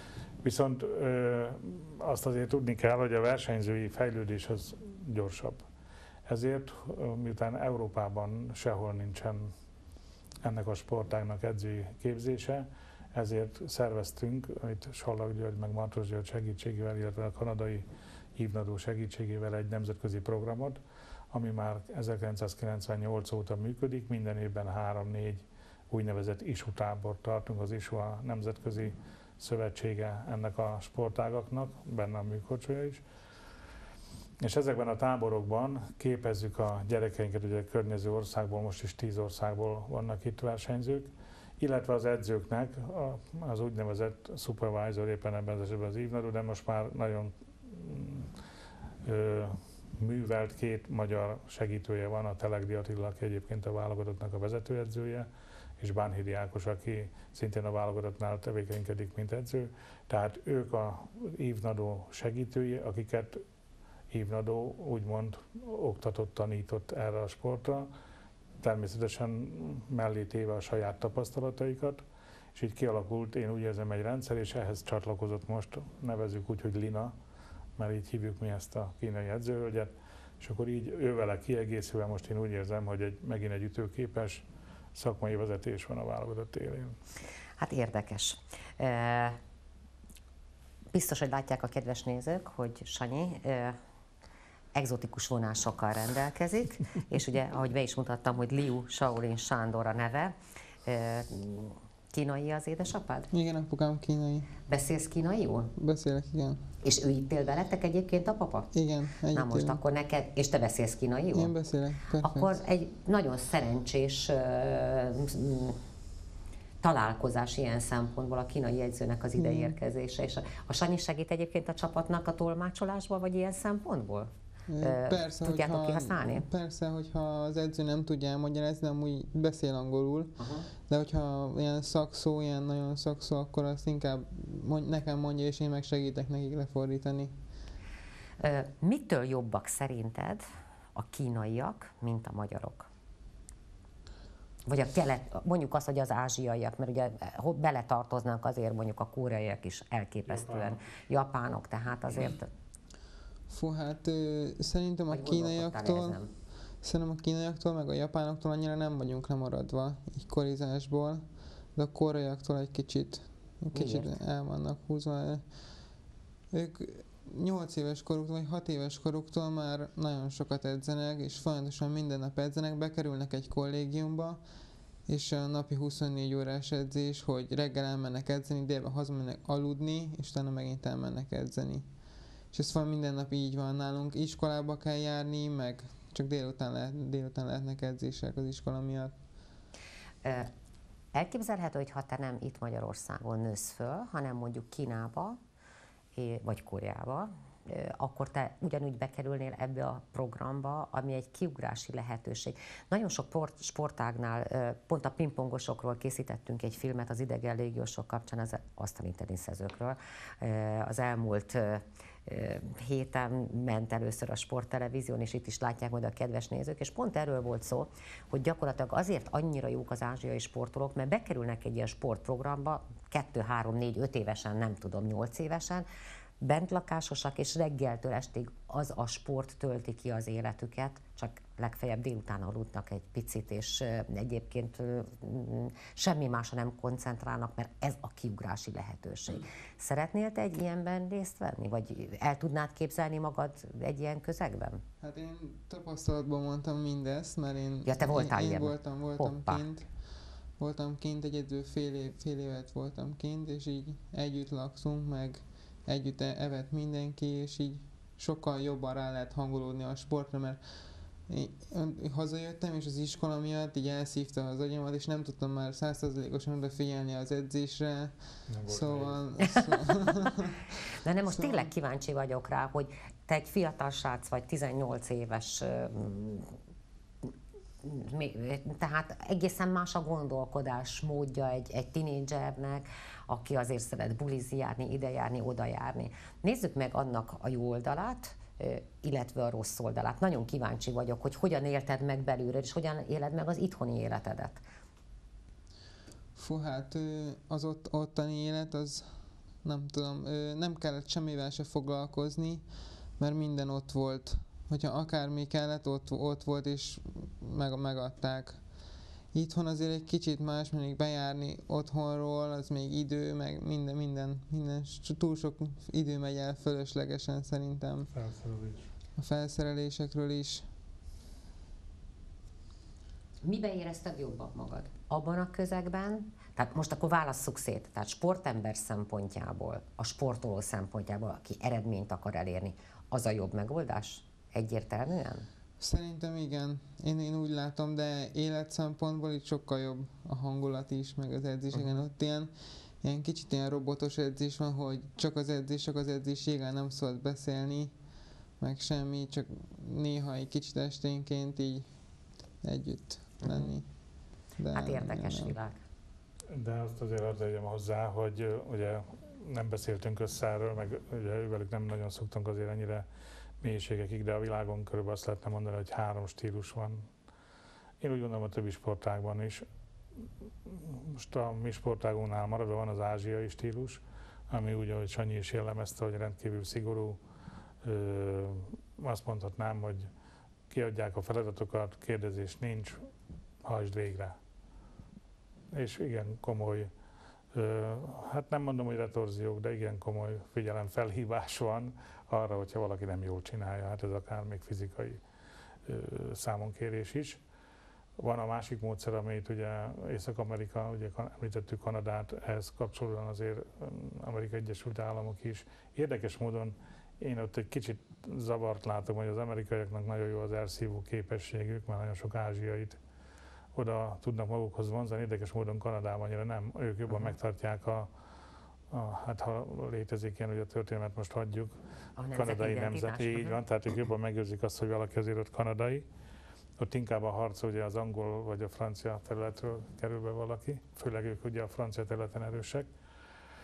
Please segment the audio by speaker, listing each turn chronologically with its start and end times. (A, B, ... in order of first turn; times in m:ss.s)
0:00.4-0:05.6 A
0:06.3-0:09.5 A
0:10.4-0:17.8 A
0:18.4-0:20.8 A
0:21.3-0:33.0 A
0:34.4-0:48.3 A
0:49.0-0:55.3 A
0:55.8-1:03.4 A
1:04.1-1:07.9 A
1:08.6-1:12.0 A
1:12.5-1:17.1 A
1:17.8-1:24.4 A
1:24.9-1:27.0 A
1:27.6-1:29.4 B
1:30.9-1:33.8 B
1:34.7-1:43.3 B
1:43.3-1:44.5 C
1:44.7-1:45.7 B
1:45.8-1:46.6 C
1:46.8-1:48.7 B
1:48.7-1:49.8 C
1:49.3-1:51.5 B
1:51.3-1:52.6 C
1:52.2-1:55.8 B
1:56.8-2:06.4 B
1:59.4-1:59.8 C
2:04.7-2:17.4 C
2:10.4-2:10.7 B
2:18.4-2:20.4 B
2:20.9-2:22.9 B
2:24.7-2:32.5 B
2:30.3-2:30.8 A
2:33.5-2:45.9 C
2:35.1-2:36.3 B
2:43.7-2:44.1 B
2:46.5-2:54.5 C
2:55.0-3:02.0 C
3:02.5-3:09.2 C
3:10.2-3:10.5 B
3:11.1-3:15.4 B
3:16.1-3:45.8 B
3:46.4-4:04.8 B
4:05.0-4:30.6 C
4:07.8-4:09.6 B
4:28.5-4:29.2 A
4:30.9-4:36.6 B
4:31.3-4:31.7 C
4:37.8-4:54.6 B
4:56.4-5:18.1 C
5:18.1-5:18.9 A
5:19.2-5:20.7 C
5:23.4-5:35.4 B
5:35.8-5:55.5 C
5:53.4-5:53.8 B
5:54.7-5:55.8 B
5:56.5-6:03.0 A
6:03.6-6:07.1 A
6:08.0-6:09.6 A
6:10.6-6:17.2 A
6:17.8-6:20.1 A
6:20.7-6:23.0 A
6:23.6-6:24.3 A
6:25.7-6:26.9 A
6:27.5-6:35.2 A
6:35.8-6:37.4 A
6:38.2-6:53.0 A
6:53.7-6:58.1 A
6:58.9-7:01.7 A
7:02.2-7:03.6 B
7:02.3-7:06.0 A
7:06.8-7:12.9 A